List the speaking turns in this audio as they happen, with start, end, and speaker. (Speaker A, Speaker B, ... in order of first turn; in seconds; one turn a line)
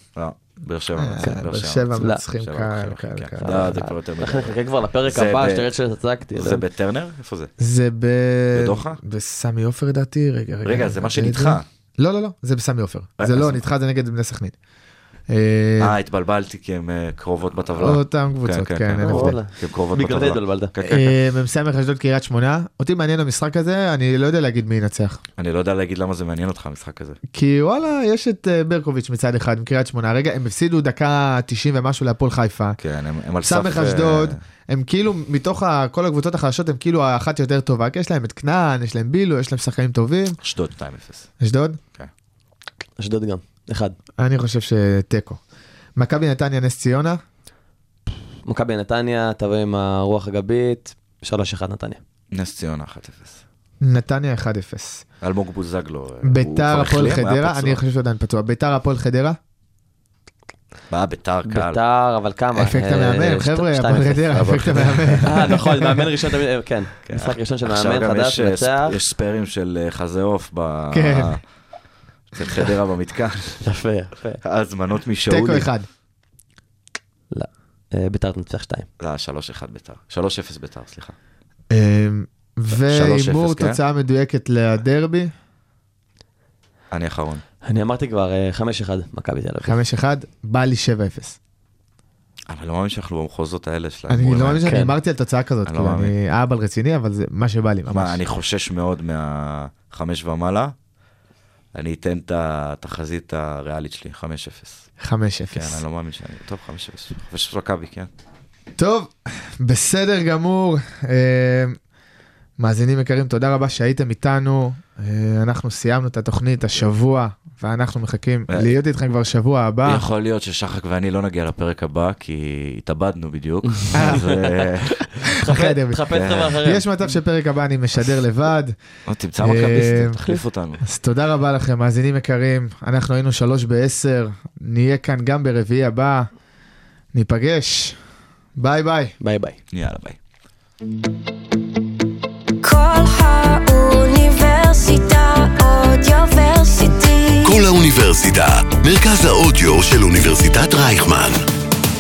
Speaker A: 0.1-5.7
Speaker B: 1.0-3.9
Speaker C: 3.4-6.7
Speaker A: 6.3-7.5
Speaker B: 7.6-14.5
Speaker A: 8.5-9.0
Speaker A: 10.6-11.7
Speaker A: 13.2-13.6
Speaker B: 15.3-16.0
Speaker A: 15.8-21.2
Speaker B: 17.8-19.4
Speaker C: 19.0-20.7
Speaker B: 20.9-25.2
Speaker A: 25.4-27.2
Speaker B: 27.3-32.8
Speaker A: 32.8-34.4
Speaker B: 33.4-40.4
Speaker A: 40.4-41.3
Speaker B: 41.4-41.8
Speaker C: 43.0-44.0
Speaker B: 44.2-45.4
Speaker B: 46.0-47.2
Speaker C: 48.5-52.0
Speaker A: 52.3-53.4
Speaker B: 53.8-55.0
Speaker A: 55.2-57.8
Speaker B: 56.2-59.4
Speaker A: 60.9-61.8
Speaker C: 61.5-69.0
Speaker B: 62.6-66.1
Speaker A: 64.4-65.6
Speaker A: 67.0-71.4
Speaker B: 70.9-71.4
Speaker A: 72.3-73.6
Speaker C: 73.6-74.4
Speaker A: 74.4-75.7
Speaker B: 75.3-75.9
Speaker C: 77.3-78.9
Speaker A: 79.0-81.2
Speaker B: 81.7-85.3
Speaker A: 82.8-83.8
Speaker A: 86.9-87.4
Speaker C: 87.6-89.8
Speaker B: 89.6-91.4
Speaker A: 92.5-94.7
Speaker B: 94.1-98.2
Speaker C: 94.6-94.9
Speaker A: 95.6-96.1
Speaker A: 97.9-100.7
Speaker A: 101.8-104.9
Speaker B: 105.0-105.8
Speaker A: 105.5-108.1
Speaker B: 108.8-111.8
Speaker B: 112.6-120.1
Speaker A: 118.5-118.8
Speaker A: 119.9-125.1
Speaker C: 123.8-126.9
Speaker B: 123.9-124.4
Speaker B: 125.4-128.8
Speaker A: 126.1-126.6
Speaker A: 129.1-130.8
Speaker B: 129.4-130.2
Speaker B: 130.8-136.3
Speaker B: 137.1-138.0
Speaker B: 138.6-139.1
Speaker C: 139.2-139.6
Speaker A: 139.7-140.2
Speaker D: 142.6-147.6
Speaker E: 147.4-151.4